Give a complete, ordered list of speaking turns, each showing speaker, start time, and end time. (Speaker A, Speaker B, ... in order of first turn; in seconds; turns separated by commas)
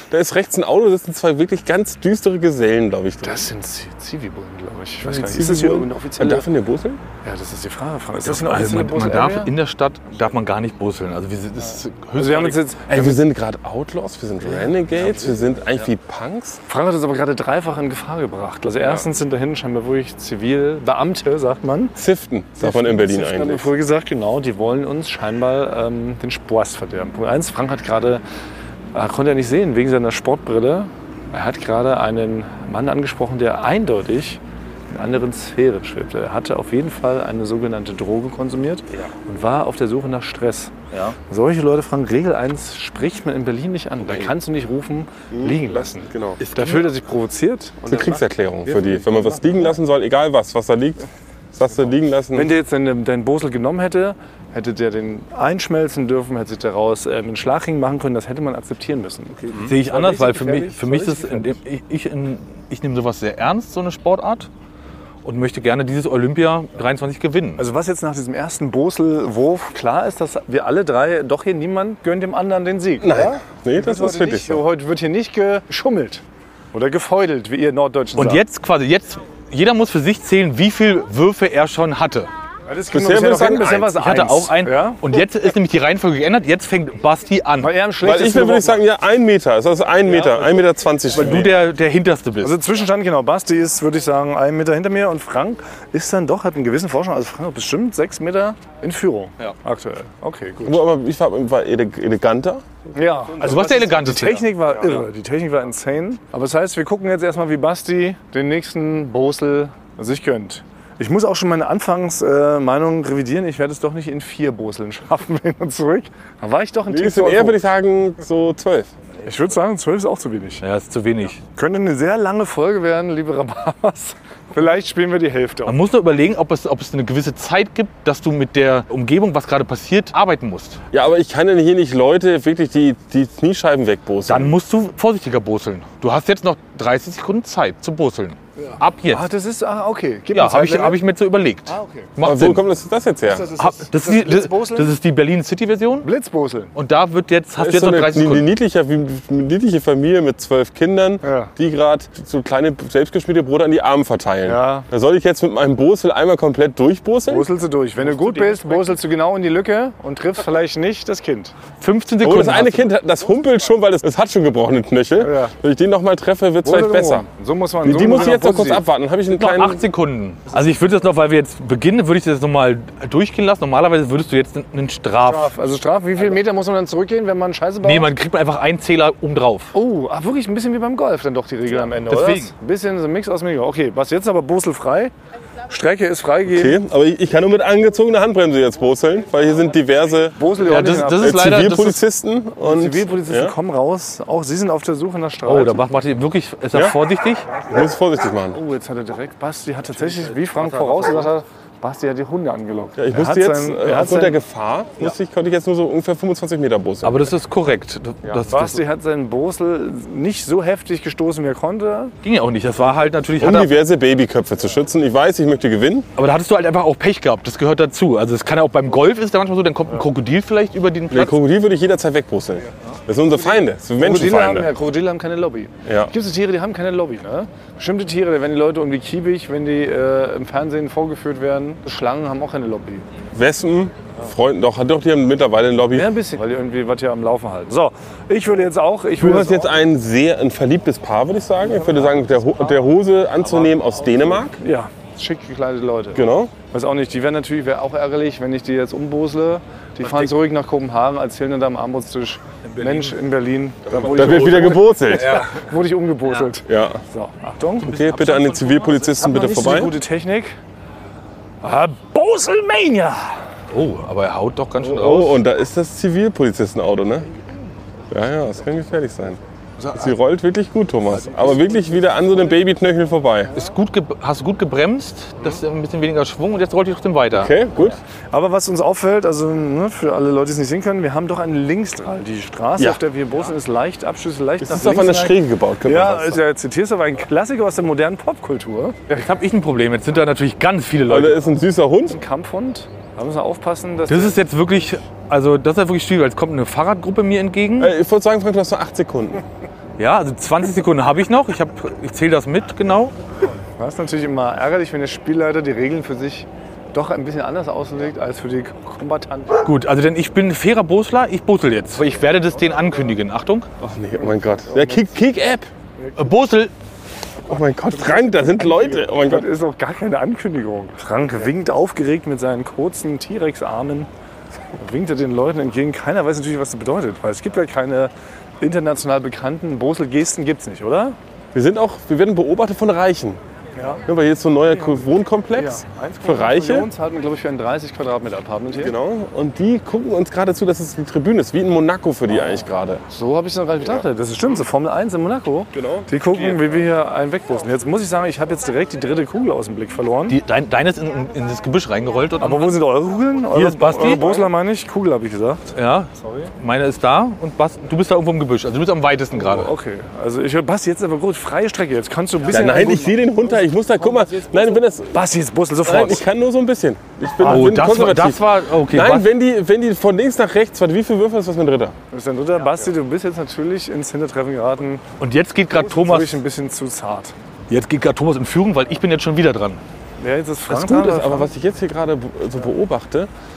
Speaker A: 0.1-3.5, Speaker B: 3.2-6.4, Speaker A: 5.0-7.0, Speaker B: 7.2-9.5, Speaker C: 8.2-13.2, Speaker B: 12.2-12.9, Speaker A: 12.9-16.6, Speaker B: 16.7-22.0, Speaker A: 22.0-23.7, Speaker B: 22.6-28.2, Speaker B: 28.9-34.4, Speaker B: 34.9-40.7, Speaker B: 41.3-49.4, Speaker A: 45.3-46.4, Speaker C: 46.4-46.9, Speaker A: 47.9-52.5, Speaker B: 52.3-61.6, Speaker C: 59.7-64.5, Speaker C: 65.2-67.6, Speaker B: 67.6-76.2, Speaker A: 73.0-74.6, Speaker B: 76.7-78.4, Speaker C: 78.2-82.3, Speaker B: 82.7-85.0, Speaker A: 82.9-84.0, Speaker C: 84.0-87.7, Speaker B: 87.6-88.8, Speaker A: 88.0-91.6, Speaker B: 90.1-90.5, Speaker C: 91.1-92.6, Speaker B: 92.4-100.8, Speaker A: 100.6-102.7, Speaker B: 103.0-117.6, Speaker C: 103.4-105.0, Speaker A: 116.9-118.9, Speaker B: 119.2-120.6, Speaker C: 120.6-121.4, Speaker B: 121.5-125.8, Speaker C: 125.7-130.8, Speaker A: 130.9-134.5, Speaker C: 134.3-139.3, Speaker B: 138.7-141.0, Speaker C: 140.3-142.6, Speaker B: 141.7-142.1, Speaker A: 142.2-143.5, Speaker B: 143.3-144.9, Speaker C: 143.6-146.1, Speaker B: 146.0-146.7, Speaker C: 146.8-148.5, Speaker A: 147.6-157.5, Speaker B: 151.2-151.5, Speaker B: 154.4-154.9, Speaker B: 157.3-161.6, Speaker C: 158.0-158.9, Speaker C: 161.8-162.9, Speaker A: 162.2-167.3, Speaker B: 165.2-165.5, Speaker B: 166.6-168.8, Speaker A: 167.8-169.8, Speaker C: 169.3-175.5, Speaker B: 175.2-178.1, Speaker C: 177.8-179.7, Speaker B: 179.7-185.1, Speaker C: 182.0-182.5, Speaker B: 185.7-186.8, Speaker A: 186.5-190.4, Speaker B: 190.4-191.5, Speaker C: 190.6-192.0, Speaker A: 191.2-193.5, Speaker B: 192.6-195.8, Speaker C: 195.5-197.5, Speaker A: 197.6-198.6, Speaker B: 198.5-204.4, Speaker C: 200.4-201.2, Speaker A: 203.0-207.3, Speaker C: 207.0-208.8, Speaker B: 208.5-212.1, Speaker C: 212.2-213.7, Speaker A: 213.4-216.1, Speaker C: 216.2-221.3, Speaker A: 221.1-224.7, Speaker B: 224.0-233.1, Speaker A: 225.9-226.1, Speaker A: 233.3-236.1, Speaker B: 235.9-239.7, Speaker A: 239.2-244.6, Speaker B: 244.6-257.9, Speaker A: 246.2-246.5, Speaker C: 252.7-253.2, Speaker C: 253.9-255.6, Speaker A: 254.1-255.4, Speaker A: 256.7-257.0, Speaker A: 257.8-260.0, Speaker C: 257.9-259.1, Speaker B: 259.2-260.6, Speaker B: 261.6-263.4, Speaker C: 263.7-265.4, Speaker A: 264.8-267.3, Speaker A: 268.1-269.4, Speaker A: 269.9-273.5, Speaker C: 273.5-277.5, Speaker A: 277.3-278.0, Speaker B: 278.3-289.1, Speaker A: 284.6-286.4, Speaker C: 289.1-291.4, Speaker A: 291.1-292.2, Speaker B: 292.1-294.4, Speaker C: 294.1-297.9, Speaker A: 297.8-299.4, Speaker C: 300.0-303.1, Speaker B: 303.8-309.6, Speaker C: 309.6-313.7, Speaker A: 313.8-315.7, Speaker B: 314.7-315.1, Speaker C: 316.2-316.7, Speaker A: 317.5-319.5, Speaker B: 318.1-324.1, Speaker B: 324.8-331.2, Speaker A: 331.5-333.4, Speaker B: 333.8-334.0, Speaker A: 334.1-336.9, Speaker B: 335.6-338.9, Speaker A: 338.7-343.0, Speaker B: 343.1-350.4, Speaker A: 345.7-346.7, Speaker C: 350.3-352.8, Speaker B: 352.4-356.5, Speaker C: 353.5-354.4, Speaker C: 355.8-359.7, Speaker B: 359.4-363.6, Speaker A: 362.5-365.2, Speaker B: 364.2-364.5, Speaker B: 365.1-366.2, Speaker A: 365.9-371.9, Speaker C: 367.4-369.3, Speaker B: 372.1-375.0, Speaker C: 375.2-376.4, Speaker B: 375.7-377.3, Speaker C: 377.7-379.8, Speaker B: 380.2-381.5, Speaker A: 380.7-383.3